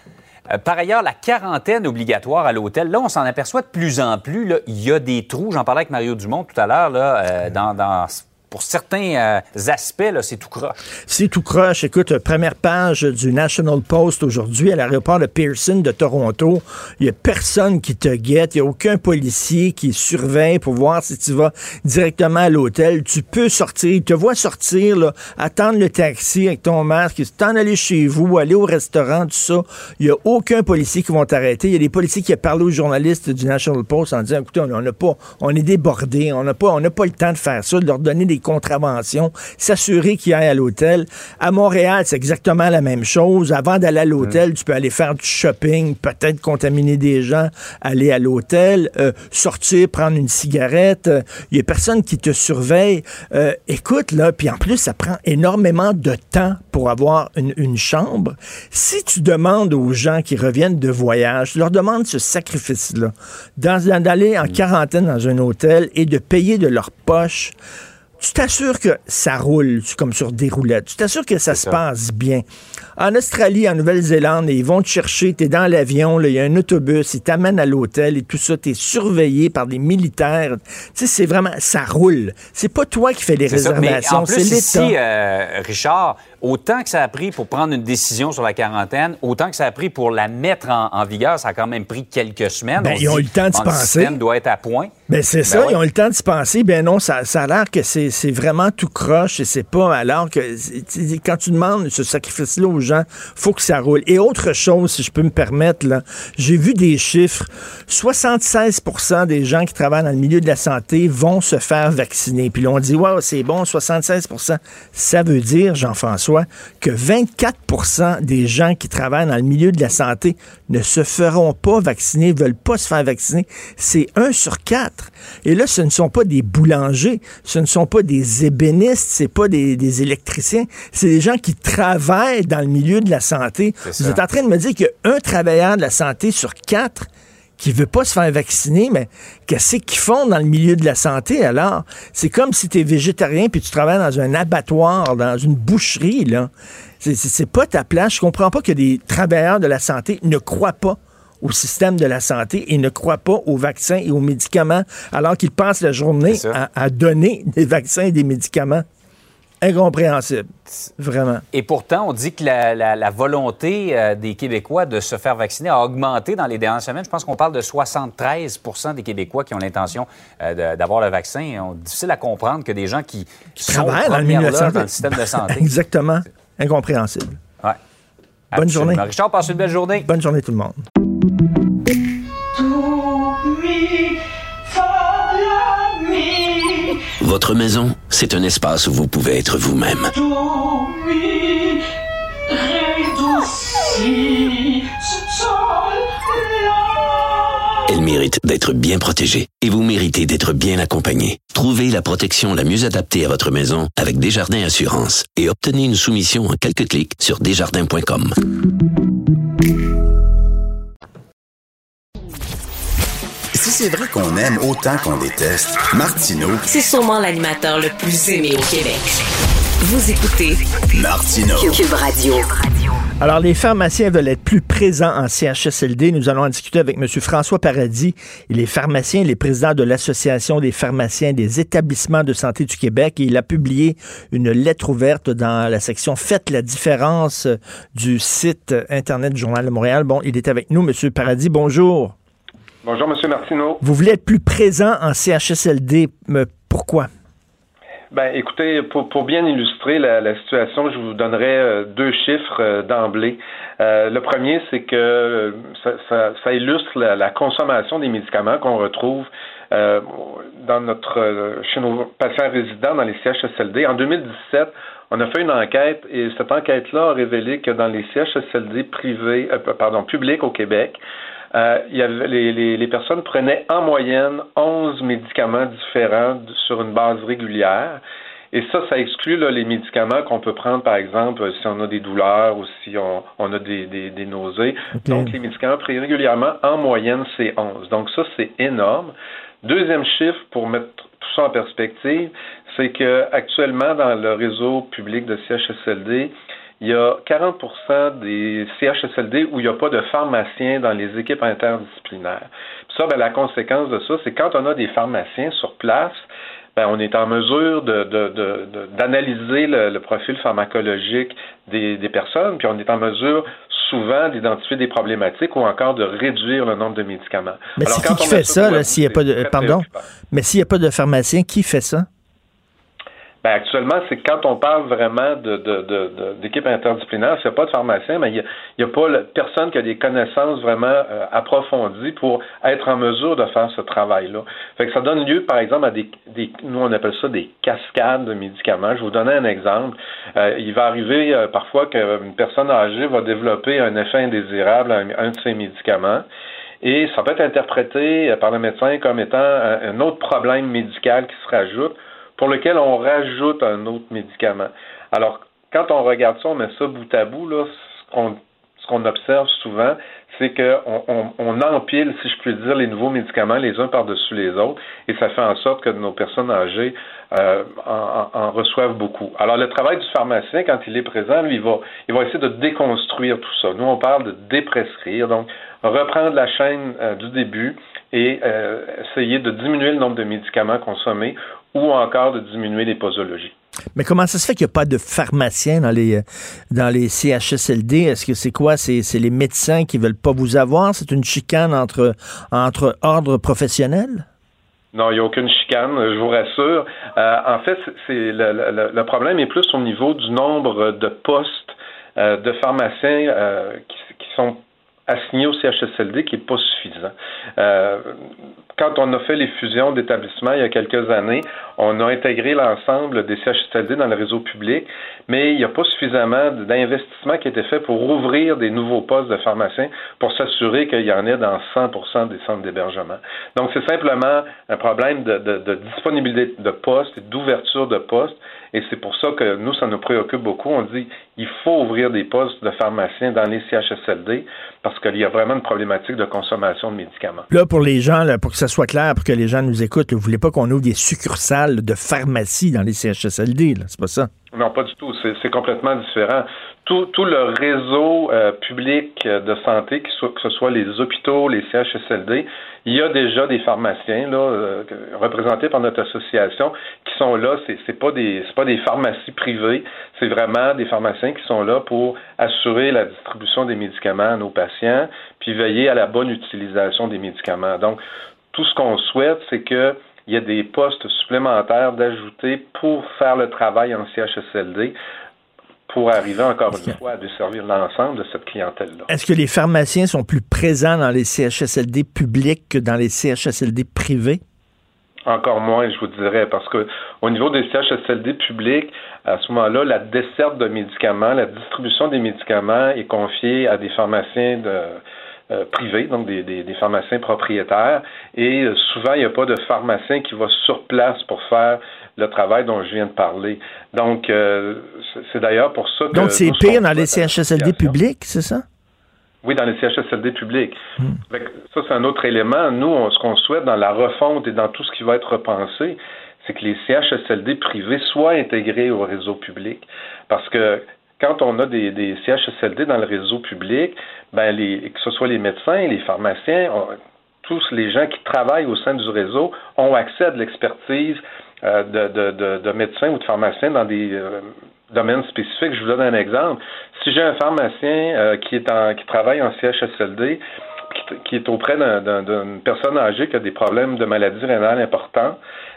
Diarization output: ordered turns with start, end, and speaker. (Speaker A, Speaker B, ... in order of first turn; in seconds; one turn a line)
Speaker A: 0.5-10.8
Speaker B: 11.1-67.5
Speaker B: 68.2-72.4
Speaker A: 71.5-71.8
Speaker B: 73.0-85.0
Speaker A: 83.5-95.8
Speaker B: 92.8-94.2
Speaker B: 95.1-146.5
Speaker A: 133.8-134.2
Speaker B: 147.0-158.8
Speaker A: 156.3-156.6
Speaker B: 159.6-161.4
Speaker A: 161.5-175.7
Speaker B: 173.6-177.4
Speaker A: 178.5-180.1
Speaker B: 178.6-179.0
Speaker B: 180.0-180.8
Speaker C: 187.2-190.1
Speaker C: 197.9-208.3
Speaker D: 213.5-216.7
Speaker E: 216.7-219.1
Speaker E: 219.8-220.6
Speaker D: 220.9-221.8
Speaker E: 221.6-223.0
Speaker B: 223.2-242.1
Speaker F: 242.8-243.8
Speaker B: 243.8-247.1
Speaker F: 248.1-271.0
Speaker F: 271.5-306.2
Speaker B: 285.0-285.3
Speaker F: 306.8-320.1
Speaker B: 317.8-322.1
Speaker F: 323.4-346.2
Speaker F: 346.8-383.5
Speaker B: 383.9-394.2
Speaker F: 394.9-408.2
Speaker F: 408.8-437.5
Speaker B: 437.5-444.3
Speaker F: 444.5-468.0
Speaker F: 468.5-474.9
Speaker F: 475.9-479.1
Speaker B: 479.1-484.4
Speaker F: 485.3-507.9
Speaker B: 506.1-508.6
Speaker F: 509.4-545.4